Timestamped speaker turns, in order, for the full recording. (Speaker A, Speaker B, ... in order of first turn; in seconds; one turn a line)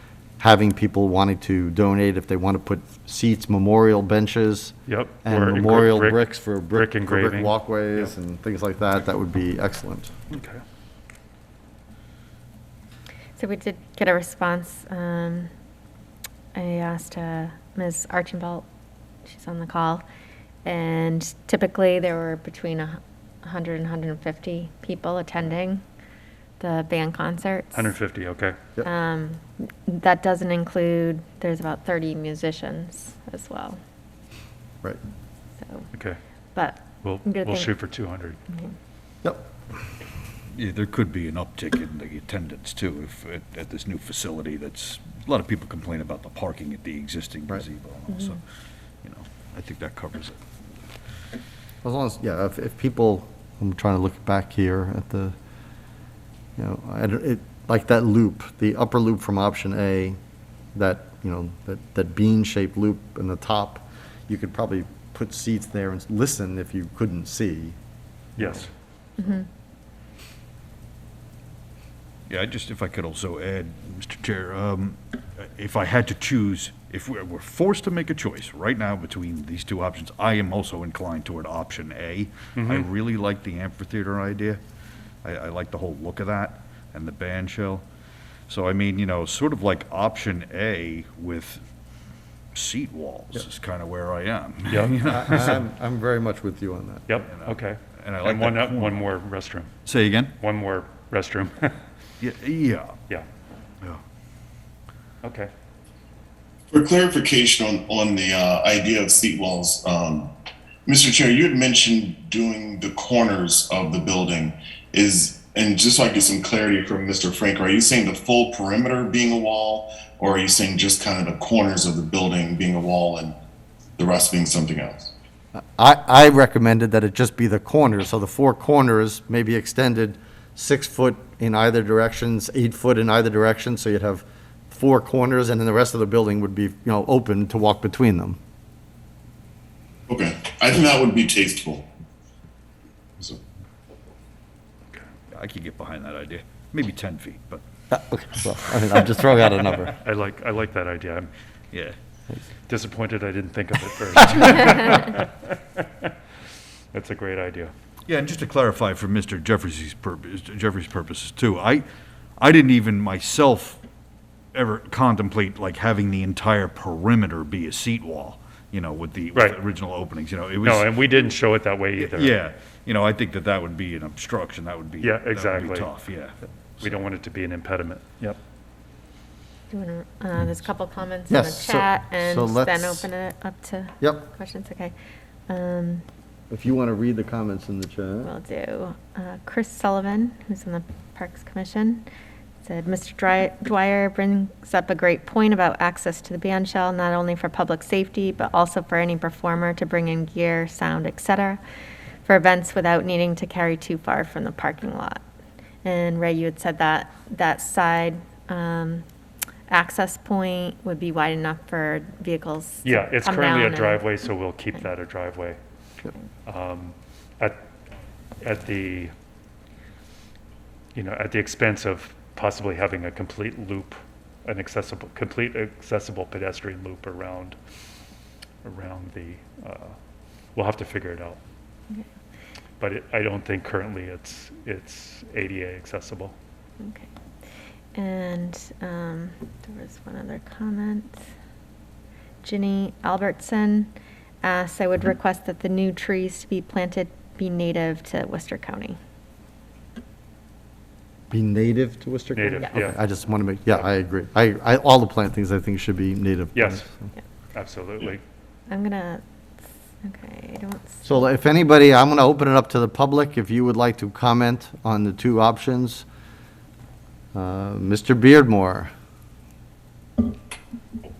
Speaker A: 0.4-10.1
Speaker B: 4.9-8.1
Speaker B: 10.3-10.6
Speaker C: 13.4-15.5
Speaker C: 16.5-18.6
Speaker C: 19.2-20.0
Speaker C: 20.6-25.8
Speaker C: 26.6-27.8
Speaker B: 27.7-28.6
Speaker C: 28.8-33.8
Speaker C: 35.6-35.9
Speaker B: 35.9-36.2
Speaker C: 36.5-37.7
Speaker B: 37.0-38.4
Speaker C: 38.5-38.7
Speaker A: 39.2-39.5
Speaker D: 40.5-48.4
Speaker D: 49.0-50.4
Speaker A: 51.8-55.3
Speaker A: 56.6-60.2
Speaker A: 60.7-67.8
Speaker B: 68.4-68.6
Speaker A: 68.4-68.7
Speaker D: 72.3-84.6
Speaker B: 82.6-82.8
Speaker D: 85.2-87.8
Speaker D: 88.5-91.6
Speaker D: 92.5-95.6
Speaker A: 95.0-97.1
Speaker B: 97.1-99.7
Speaker D: 97.3-99.0
Speaker D: 99.8-100.3
Speaker B: 100.4-101.8
Speaker D: 102.2-103.0
Speaker B: 105.2-105.5
Speaker E: 106.7-110.3
Speaker E: 110.8-123.4
Speaker E: 124.0-125.1
Speaker A: 125.5-138.4
Speaker E: 140.1-141.8
Speaker D: 145.3-147.6
Speaker A: 147.9-149.9
Speaker B: 150.0-151.3
Speaker B: 152.7-156.1
Speaker B: 156.9-157.7
Speaker D: 158.1-161.8
Speaker D: 162.4-163.8
Speaker D: 164.5-171.1
Speaker B: 170.6-172.3
Speaker D: 172.0-176.3
Speaker B: 175.0-175.9
Speaker B: 176.8-178.4
Speaker C: 179.7-184.9
Speaker A: 181.3-183.1
Speaker A: 184.0-184.2
Speaker C: 185.5-186.0
Speaker A: 186.5-188.3
Speaker C: 188.2-192.0
Speaker C: 192.6-201.6
Speaker C: 202.2-205.2
Speaker C: 205.8-209.0
Speaker C: 209.7-214.0
Speaker B: 212.8-215.6
Speaker B: 216.4-217.6
Speaker B: 218.4-219.1
Speaker B: 220.9-227.6
Speaker B: 228.6-229.9
Speaker B: 230.5-231.4
Speaker B: 232.8-236.3
Speaker C: 236.8-237.1
Speaker C: 237.9-241.2
Speaker C: 242.4-243.9
Speaker C: 244.4-249.0
Speaker A: 251.3-257.1
Speaker B: 252.3-253.0
Speaker B: 256.5-256.9
Speaker B: 257.5-258.2
Speaker C: 258.7-259.2
Speaker C: 260.0-261.0
Speaker A: 261.0-266.1
Speaker A: 267.3-268.9